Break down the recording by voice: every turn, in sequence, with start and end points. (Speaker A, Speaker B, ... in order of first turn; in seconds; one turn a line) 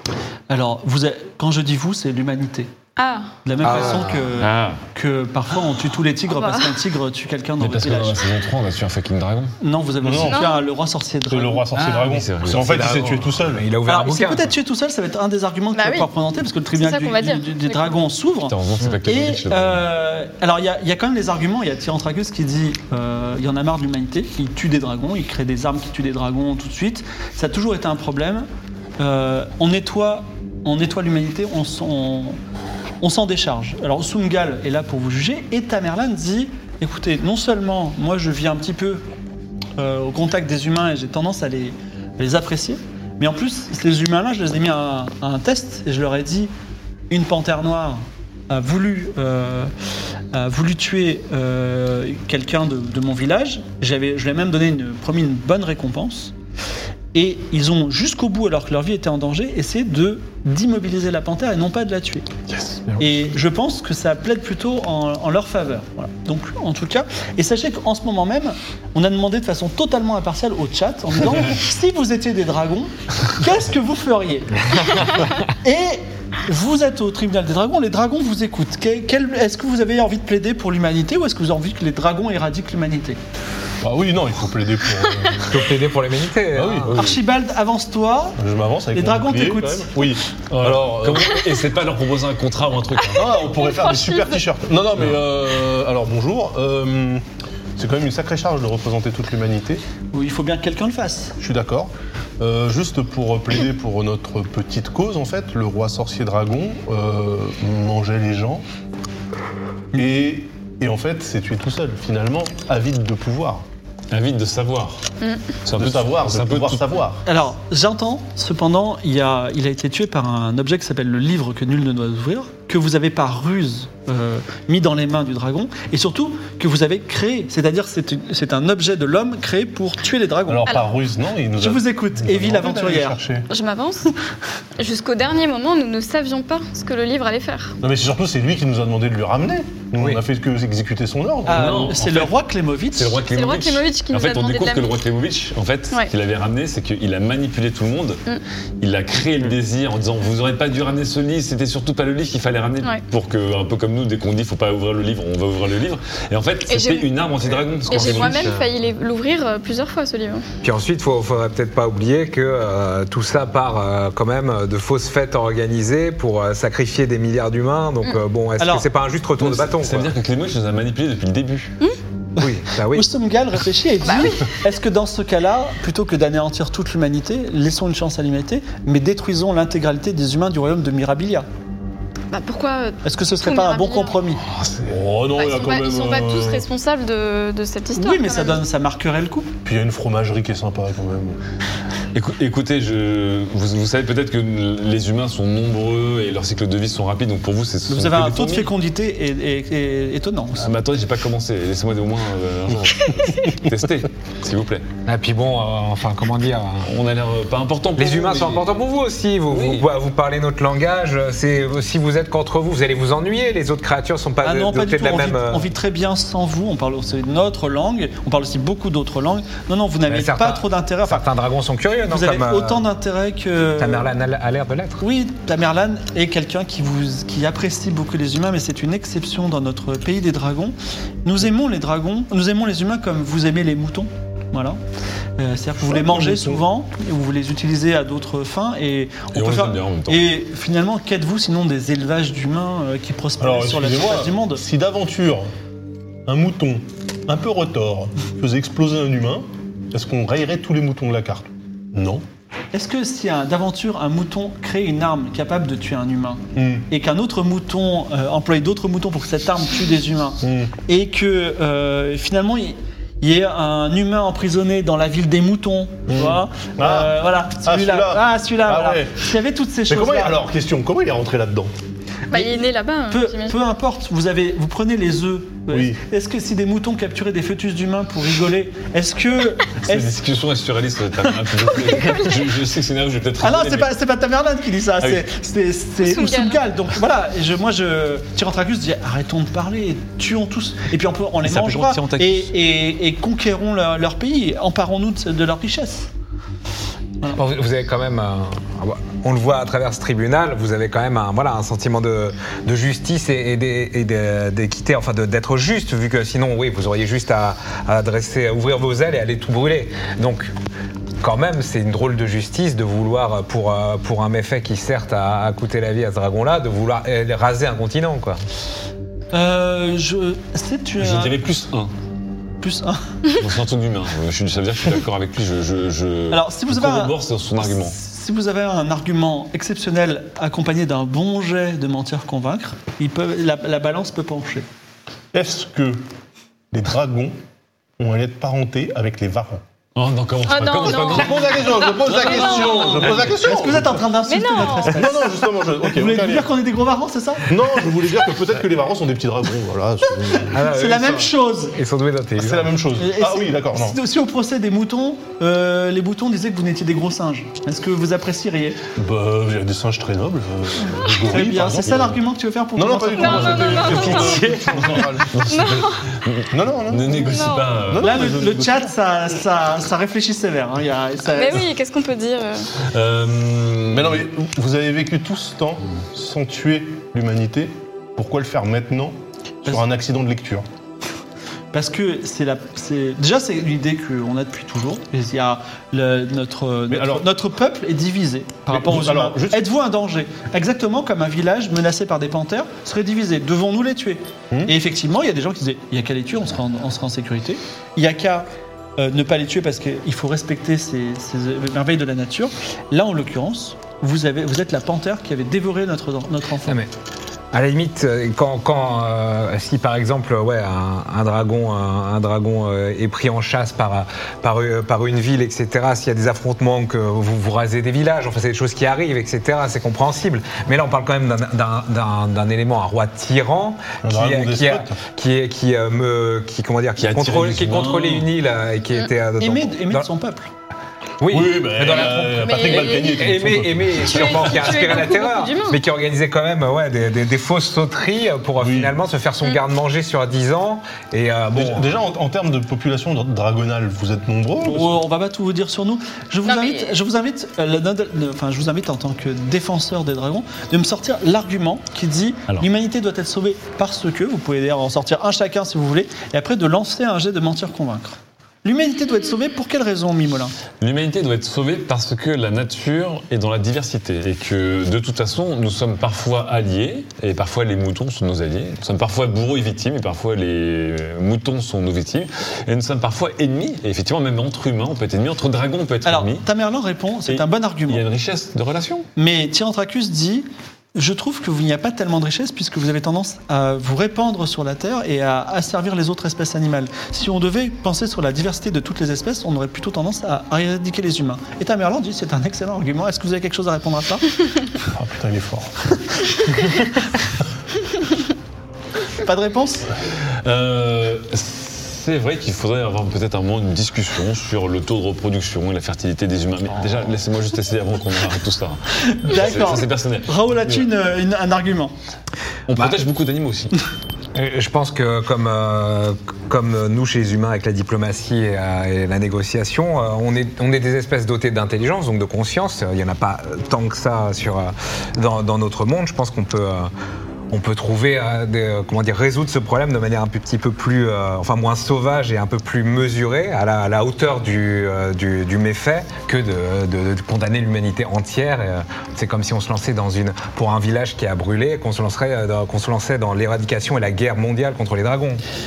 Speaker A: 0.5-2.7
Speaker B: 3.0-3.4
Speaker A: 3.4-8.2
Speaker C: 3.6-4.3
Speaker D: 3.6-4.8
Speaker B: 6.3-6.7
Speaker D: 7.6-9.5
Speaker A: 9.6-11.7
Speaker E: 10.0-10.5
Speaker B: 10.2-10.6
Speaker E: 11.3-13.6
Speaker D: 11.8-13.2
Speaker C: 12.5-14.5
Speaker A: 13.8-28.5
Speaker B: 15.7-16.1
Speaker B: 16.7-17.9
Speaker D: 18.5-19.9
Speaker A: 29.0-32.4
Speaker A: 33.0-39.0
Speaker A: 39.8-46.5
Speaker A: 47.1-49.7
Speaker A: 50.3-56.3
Speaker A: 57.1-62.3
Speaker E: 62.5-63.0
Speaker A: 63.0-83.2
Speaker E: 83.8-85.8
Speaker C: 85.5-87.0
Speaker E: 86.5-87.0
Speaker A: 86.9-88.4
Speaker D: 86.9-87.2
Speaker E: 88.4-91.4
Speaker A: 88.9-90.0
Speaker D: 90.5-93.4
Speaker E: 93.1-97.2
Speaker B: 93.5-94.4
Speaker E: 97.8-99.8
Speaker A: 100.1-101.3
Speaker E: 101.4-108.6
Speaker E: 109.9-113.6
Speaker D: 114.1-115.0
Speaker D: 115.6-116.9
Speaker E: 115.8-117.2
Speaker A: 117.2-130.8
Speaker E: 130.5-133.5
Speaker A: 131.6-133.2
Speaker B: 133.5-134.1
Speaker B: 134.8-137.7
Speaker E: 137.8-142.2
Speaker A: 141.4-143.2
Speaker D: 141.5-142.3
Speaker D: 142.9-148.2
Speaker B: 143.3-144.9
Speaker D: 148.8-158.6
Speaker B: 156.7-157.1
Speaker B: 157.8-160.4
Speaker C: 157.9-158.7
Speaker C: 160.6-170.1
Speaker A: 168.6-168.9
Speaker D: 169.4-171.7
Speaker C: 172.4-173.1
Speaker A: 172.4-181.5
Speaker B: 174.0-174.5
Speaker B: 182.3-184.2
Speaker A: 183.0-184.4
Speaker D: 184.4-184.9
Speaker E: 184.8-186.7
Speaker B: 185.3-188.6
Speaker A: 187.9-189.5
Speaker E: 189.6-191.4
Speaker D: 192.1-198.7
Speaker A: 197.9-200.7
Speaker D: 200.6-204.9
Speaker C: 205.1-206.9
Speaker D: 206.8-208.8
Speaker C: 208.0-215.7
Speaker D: 209.5-209.8
Speaker A: 214.4-221.2
Speaker C: 220.1-222.8
Speaker A: 222.1-224.1
Speaker C: 223.8-225.0
Speaker A: 225.0-234.8
Speaker A: 235.4-244.6
Speaker E: 235.8-236.6
Speaker D: 239.3-240.3
Speaker E: 243.4-245.5
Speaker E: 246.3-252.2
Speaker A: 252.7-270.4
Speaker E: 256.6-256.9
Speaker E: 260.4-260.7
Speaker E: 266.1-269.2
Speaker E: 269.9-271.7
Speaker A: 272.3-272.6
Speaker B: 272.3-273.6
Speaker A: 273.1-280.1
Speaker E: 275.7-276.0
Speaker D: 279.8-283.9
Speaker A: 283.4-296.1
Speaker B: 286.0-286.6
Speaker D: 291.4-292.5
Speaker C: 297.3-310.5
Speaker C: 311.2-318.4
Speaker A: 319.3-321.4
Speaker D: 321.0-321.9
Speaker A: 322.6-323.0
Speaker D: 323.4-327.9
Speaker A: 326.3-334.6
Speaker E: 335.3-336.0
Speaker E: 336.7-337.4
Speaker E: 338.0-339.6
Speaker D: 339.9-343.2
Speaker B: 340.4-343.1
Speaker E: 341.0-344.0
Speaker A: 342.4-347.5
Speaker B: 344.3-345.1
Speaker E: 344.9-346.5
Speaker E: 347.5-350.6
Speaker A: 350.3-351.8
Speaker C: 350.5-352.8
Speaker E: 352.4-354.0
Speaker A: 353.0-358.8
Speaker E: 359.0-362.2
Speaker A: 361.3-364.1
Speaker D: 361.8-362.1
Speaker E: 362.8-365.4
Speaker B: 363.1-364.4
Speaker D: 363.3-368.3
Speaker C: 364.3-364.8
Speaker B: 365.4-366.0
Speaker E: 366.5-368.9
Speaker B: 367.2-367.7
Speaker A: 368.0-371.6
Speaker B: 371.3-372.7
Speaker D: 372.9-374.2
Speaker E: 373.9-380.6
Speaker A: 381.7-406.8
Speaker E: 386.9-387.3
Speaker E: 388.7-389.6
Speaker C: 406.6-406.9
Speaker C: 407.5-430.1
Speaker E: 424.0-425.0
Speaker D: 427.0-428.3
Speaker A: 429.4-430.5
Speaker C: 431.2-441.9
Speaker E: 431.3-434.5
Speaker B: 432.4-433.4
Speaker B: 434.0-435.8
Speaker E: 438.6-438.9
Speaker E: 441.5-445.0
Speaker A: 444.6-460.6
Speaker B: 446.4-446.9
Speaker D: 460.8-476.4
Speaker A: 476.0-478.0
Speaker D: 477.3-479.1
Speaker A: 479.1-494.3
Speaker E: 494.9-495.7
Speaker E: 496.2-496.7
Speaker A: 499.2-499.9
Speaker D: 500.4-510.7
Speaker A: 509.0-511.9
Speaker D: 512.7-513.7
Speaker C: 514.3-526.9
Speaker C: 527.5-545.4